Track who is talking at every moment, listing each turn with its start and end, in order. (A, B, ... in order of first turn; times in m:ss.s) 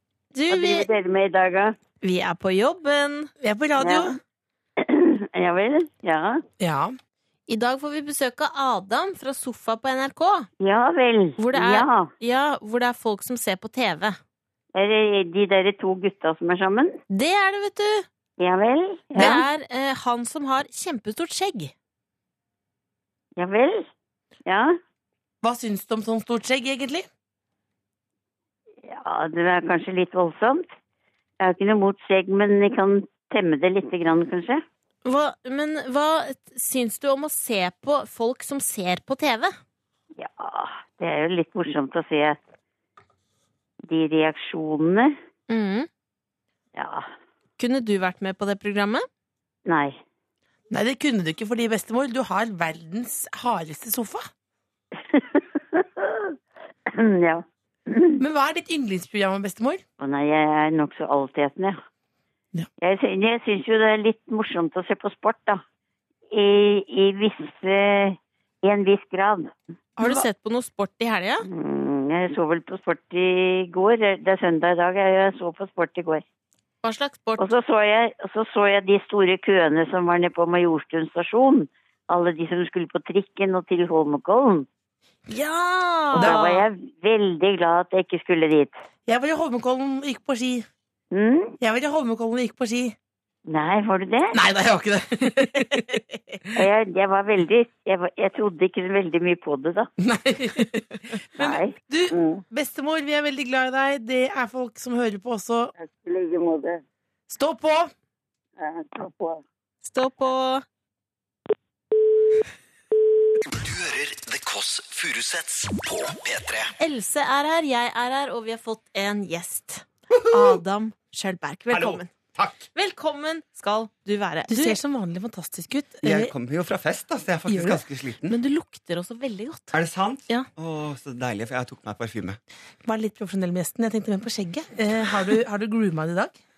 0:00.3-0:00.9 A
0:00.5-0:01.8 B
0:02.0-0:03.3 A
0:03.4-0:04.2 C
0:03.8-0:04.2 B
0:04.8-0:06.4 B
0:06.6-0:07.0 C
0:07.5-0:10.5 A
0:10.6-0:12.1 B
0:11.4-0:14.2 A
0:14.7-0:17.0 B
0:17.1-0:18.1 A
0:18.4-0:19.4 B
0:19.2-0:21.7 A
0:23.4-0:23.9 B
0:24.4-0:24.8 B
0:25.4-0:27.1 C
0:28.8-0:30.6 B
0:31.4-0:34.6 B
0:35.0-0:39.5 A
0:40.2-0:42.4 B
0:43.9-0:45.2 B
0:45.5-0:45.9 A
0:46.7-0:47.1 B
0:47.6-0:49.0 A
0:49.6-0:50.0 B
0:50.7-0:54.3 C
0:55.0-0:56.3 B
0:56.8-0:58.2 B
0:58.2-0:59.8 C
1:00.0-1:01.8 B
1:02.8-1:05.6 B
1:06.3-1:09.5 B
1:10.0-1:11.4 A
1:10.0-1:10.2 C
1:11.5-1:16.2 B
1:16.8-1:17.4 A
1:17.4-1:24.7 B
1:25.3-1:26.6 A
1:26.1-1:26.4 C
1:26.1-1:28.8 B
1:29.0-1:30.7 C
1:31.1-1:31.6 B
1:31.6-1:32.9 C
1:33.5-1:34.4 B
1:34.3-1:36.0 C
1:35.6-1:36.4 A
1:36.5-1:39.9 B
1:40.0-1:45.7 C
1:41.4-1:42.4 B
1:45.8-1:46.8 B
1:47.3-1:47.9 C
1:48.6-1:49.4 B
1:49.8-1:50.6 A
1:53.4-1:56.7 D
1:56.8-2:02.1 A
2:00.1-2:00.6 E
2:01.7-2:02.6 E
2:02.7-2:04.8 A
2:04.5-2:06.3 C
2:06.0-2:08.4 E
2:07.5-2:07.8 C
2:08.3-2:09.8 A
2:09.7-2:12.4 E
2:12.8-2:16.3 C